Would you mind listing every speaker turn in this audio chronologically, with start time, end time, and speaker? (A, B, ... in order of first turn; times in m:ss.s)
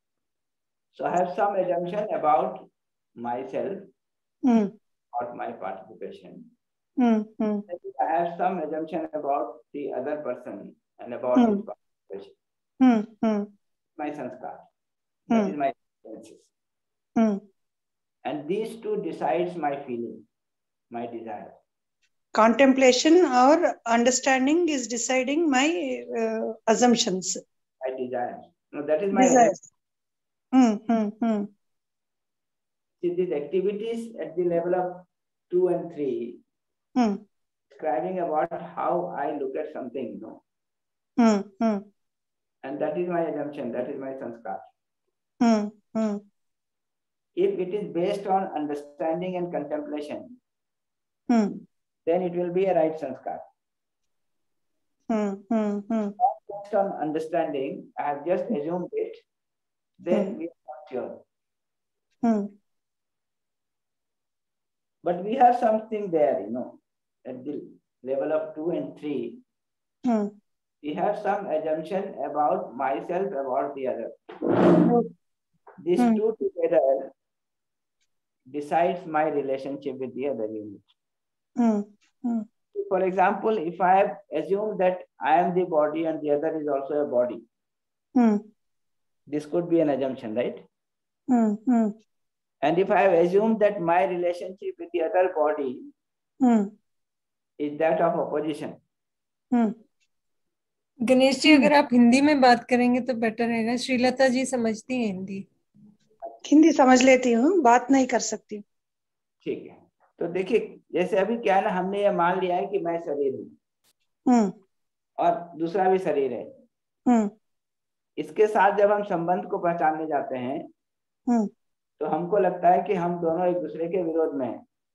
0:00.9-0:03.9 A
0:04.4-0:04.7 B
0:05.1-0:06.5 A
0:07.0-0:07.6 B
0:07.7-0:12.3 A
0:12.8-0:13.5 B
0:14.0-0:14.7 A
0:15.3-0:16.5 A
0:17.2-0:17.4 B
0:18.2-0:20.2 A
0:20.9-0:21.6 A
0:22.3-0:27.4 B
0:27.8-0:29.6 A
0:29.1-0:29.6 B
0:30.5-0:31.5 B
0:33.0-0:36.4 A
0:37.0-0:37.2 B
0:37.7-0:40.4 A
0:41.2-0:41.8 B
0:42.6-0:44.7 A
0:45.4-0:46.2 B
0:47.4-0:50.4 A
0:51.3-0:51.6 B
0:52.0-0:53.4 A
0:55.1-0:56.1 B
0:56.2-0:59.2 A
1:00.0-1:01.2 A
1:02.2-1:02.5 B
1:05.0-1:09.4 A
1:10.0-1:10.3 B
1:10.8-1:14.8 A
1:15.8-1:17.1 A
1:18.5-1:20.9 A
1:21.6-1:22.4 B
1:22.7-1:27.4 A
1:28.2-1:28.4 B
1:29.3-1:30.6 A
1:31.3-1:32.0 B
1:32.6-1:35.9 A
1:36.4-1:36.7 B
1:37.6-1:38.8 A
1:39.5-1:39.8 B
1:41.1-1:45.4 C
1:41.4-1:41.7 B
1:46.4-1:48.6 B
1:49.4-1:53.5 A
1:54.3-1:54.5 B
1:55.2-1:56.6 A
1:57.1-1:57.3 B
1:58.2-2:00.7 A
2:02.0-2:04.6 A